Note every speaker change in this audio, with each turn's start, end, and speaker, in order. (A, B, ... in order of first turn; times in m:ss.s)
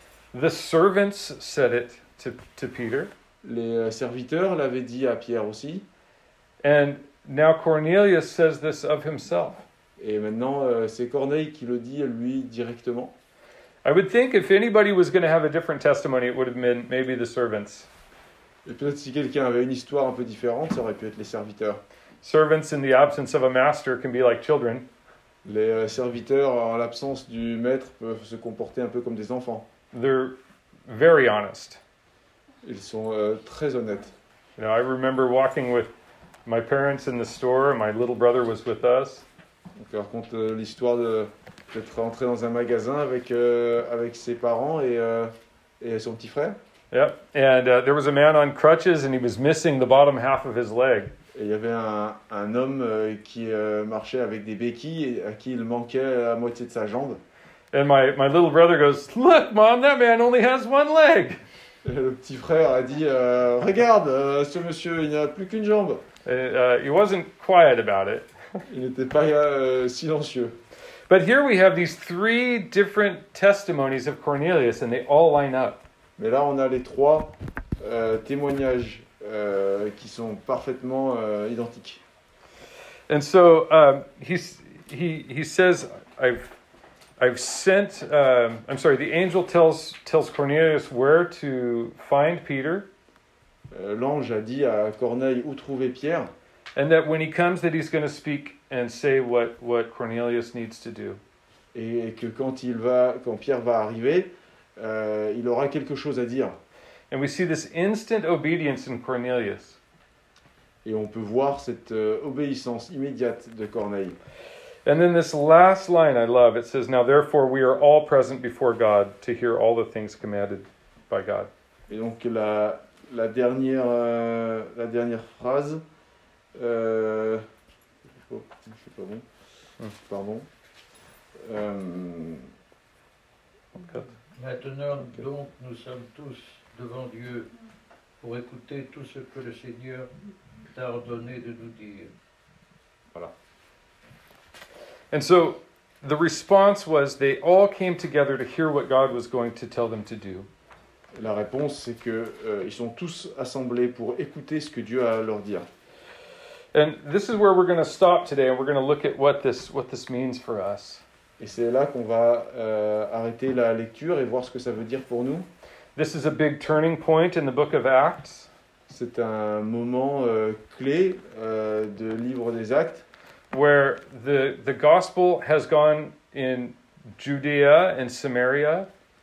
0:00.3-0:03.1 A
0:03.4-0:05.8 B
0:06.6-0:09.6 A
0:10.0-0:13.1 B
0:13.8-0:17.9 A
0:18.6-0:21.8 B
0:22.2-0:24.8 A
0:25.4-0:29.7 B
0:29.9-0:30.4 A
0:30.9-0:31.8 A
0:32.6-0:34.1 B
0:34.6-0:35.9 A
0:36.4-0:39.2 A
0:39.8-0:46.6 B
0:46.9-0:51.1 A
0:51.3-0:57.2 B
0:57.7-1:01.4 A
1:01.8-1:06.0 B
1:06.2-1:08.6 A
1:08.7-1:10.6 B
1:11.1-1:15.8 A
1:16.2-1:22.0 B
1:23.1-1:26.5 A
1:27.2-1:32.9 A
1:33.7-1:36.3 B
1:36.8-1:41.2 A
1:41.7-1:46.6 B
1:47.1-1:49.8 A
1:50.8-1:54.2 B
1:54.8-2:01.5 A
2:01.9-2:05.8 B
2:06.5-2:07.4 B
2:08.0-2:09.2 B
2:10.0-2:10.5 B
2:11.4-2:12.5 B
2:13.7-2:14.1 A
2:14.4-2:17.5 C
2:18.2-2:20.1 C
2:20.7-2:22.1 C
2:25.1-2:30.5 A
2:31.1-2:35.7 B
2:36.7-2:41.0 A
2:41.4-2:45.5 B
2:46.0-2:48.5 A
2:48.9-2:53.0 B
2:53.5-2:58.9 A